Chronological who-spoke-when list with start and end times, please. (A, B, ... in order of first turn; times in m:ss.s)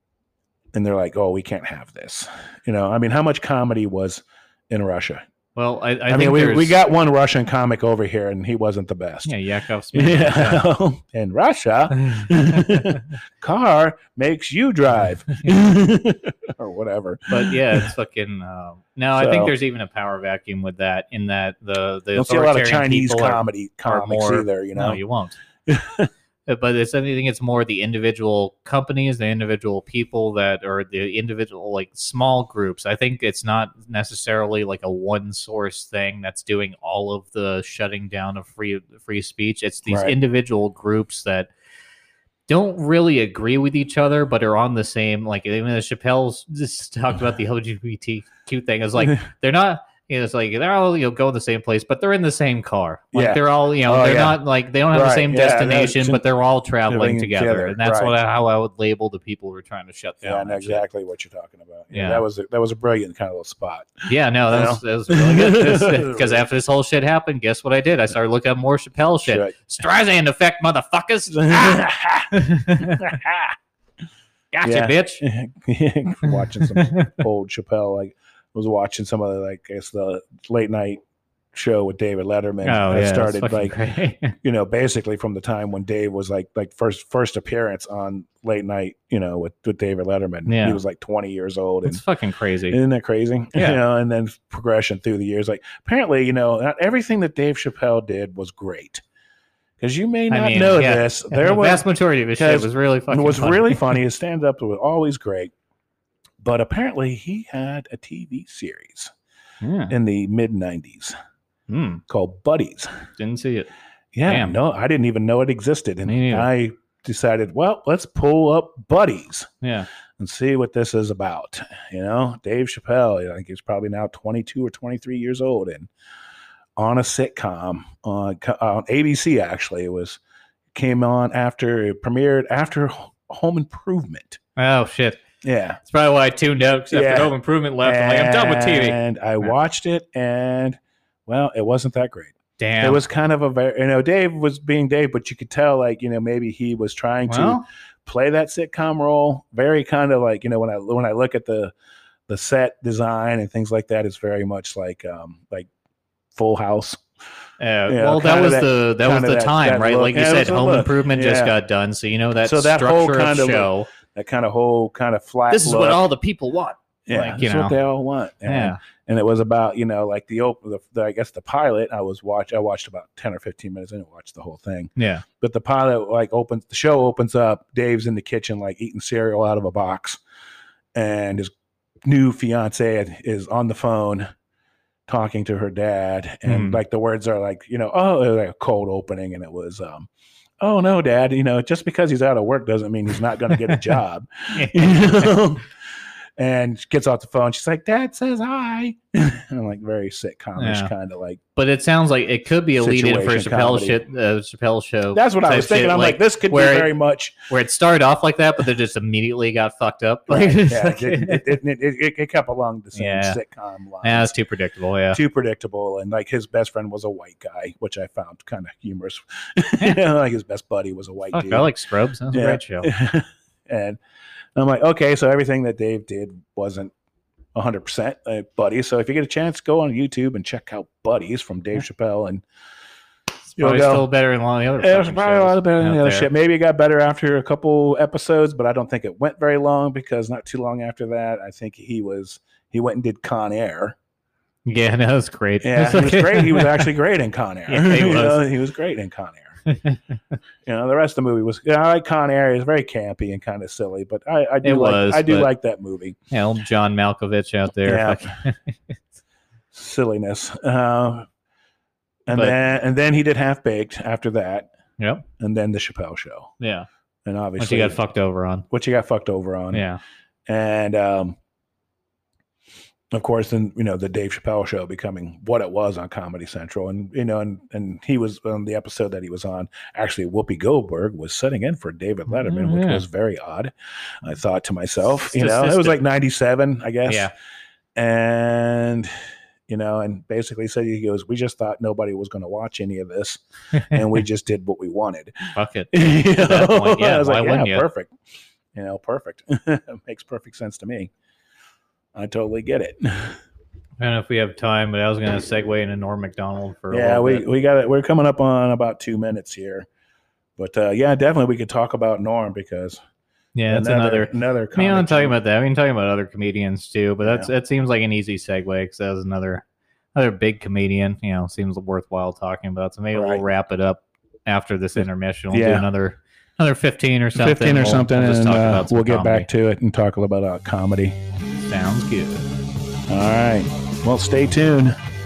0:00.7-0:05.2 A
0:05.5-0:06.8 B
0:06.1-0:09.3 A
0:09.2-0:10.6 B
0:09.9-0:17.9 A
0:12.0-0:12.8 B
0:17.3-0:25.4 B
0:19.2-0:19.5 A
0:22.2-0:25.0 A
0:25.7-0:26.1 A
0:26.5-0:41.5 B
0:39.9-0:40.2 A
0:42.5-1:00.8 B
0:53.1-0:54.4 A
0:54.9-0:56.2 A
0:56.9-0:58.2 A
1:00.2-1:06.4 A
1:01.9-1:02.2 B
1:04.1-1:13.1 B
1:09.2-1:09.5 A
1:11.3-1:13.5 A
1:14.5-1:15.2 B
1:14.6-1:21.0 A
1:16.2-1:17.2 B
1:21.5-1:23.8 A
1:22.6-1:24.3 B
1:24.4-1:32.0 A
1:30.5-1:30.8 B
1:31.8-1:32.8 B
1:32.7-1:39.0 A
1:39.8-1:41.8 A
1:40.3-1:44.0 B
1:42.4-1:45.5 A
1:46.4-1:49.1 A
1:49.6-1:49.9 B
1:49.9-1:51.1 A
1:51.7-1:52.0 B
1:52.0-1:52.9 A
1:53.2-1:53.7 B
1:54.1-1:59.5 A
1:54.2-1:54.5 B
1:56.0-1:56.5 B
1:59.6-1:59.9 B
2:00.2-2:05.9 A
2:06.8-2:10.2 A
2:10.7-2:14.4 A
2:14.6-2:15.2 B
2:15.4-2:15.8 A
2:15.8-2:19.5 B
2:16.9-2:31.7 A
2:22.6-2:23.0 B
2:27.3-2:27.6 B
2:32.3-2:35.7 A
2:36.3-2:37.0 A
2:37.6-2:43.9 B
2:37.9-2:41.6 A
2:42.4-2:46.0 A
2:45.5-2:47.8 B
2:47.1-3:00.2 A
2:48.4-2:48.8 B
2:55.0-2:55.2 B
3:01.0-3:01.5 A
3:02.0-3:04.3 A
3:05.1-3:10.1 A
3:06.4-3:06.8 B
3:10.6-3:15.6 A
3:13.7-3:14.0 B
3:14.5-3:15.4 B
3:16.4-3:21.4 A
3:20.6-3:20.9 B
3:21.6-3:26.9 B
3:22.8-3:24.0 A
3:25.1-3:27.4 A
3:27.5-3:31.4 B
3:30.3-3:34.3 A
3:33.0-3:33.4 B
3:34.0-3:35.2 B
3:35.1-3:41.7 A
3:41.3-3:42.9 B
3:42.3-3:44.0 A
3:44.6-3:46.9 A
3:47.5-3:52.4 A
3:53.5-3:56.3 B
3:53.6-3:54.1 A
3:54.8-4:04.0 A
4:04.6-4:06.9 B
4:05.6-4:09.6 A
4:07.7-4:08.4 B
4:09.7-4:10.2 B
4:10.6-4:16.2 A
4:14.6-4:15.5 B
4:16.3-4:18.7 B
4:17.8-4:18.4 A
4:19.7-4:21.2 A
4:22.3-4:24.7 A
4:25.0-4:25.2 B
4:25.4-4:26.5 A
4:26.6-4:26.9 B
4:27.2-4:28.0 A
4:27.6-4:28.6 B
4:28.7-4:29.8 A
4:29.7-4:30.0 B
4:30.5-4:31.4 A
4:33.1-4:47.3 A
4:42.3-4:43.0 B
4:45.1-4:46.0 B
4:47.0-4:47.3 B
4:48.0-4:49.1 A
4:49.7-4:55.3 A
4:55.6-4:57.8 B
4:55.9-4:58.1 A
4:58.7-5:01.1 A
5:02.1-5:03.4 A
5:04.0-5:07.4 B
5:06.9-5:09.9 A
5:10.6-5:13.0 A
5:13.5-5:29.5 B
5:13.7-5:15.4 A
5:23.1-5:23.4 A
5:25.5-5:25.9 A
5:27.3-5:31.2 A
5:31.6-5:32.5 B
5:33.1-5:35.0 A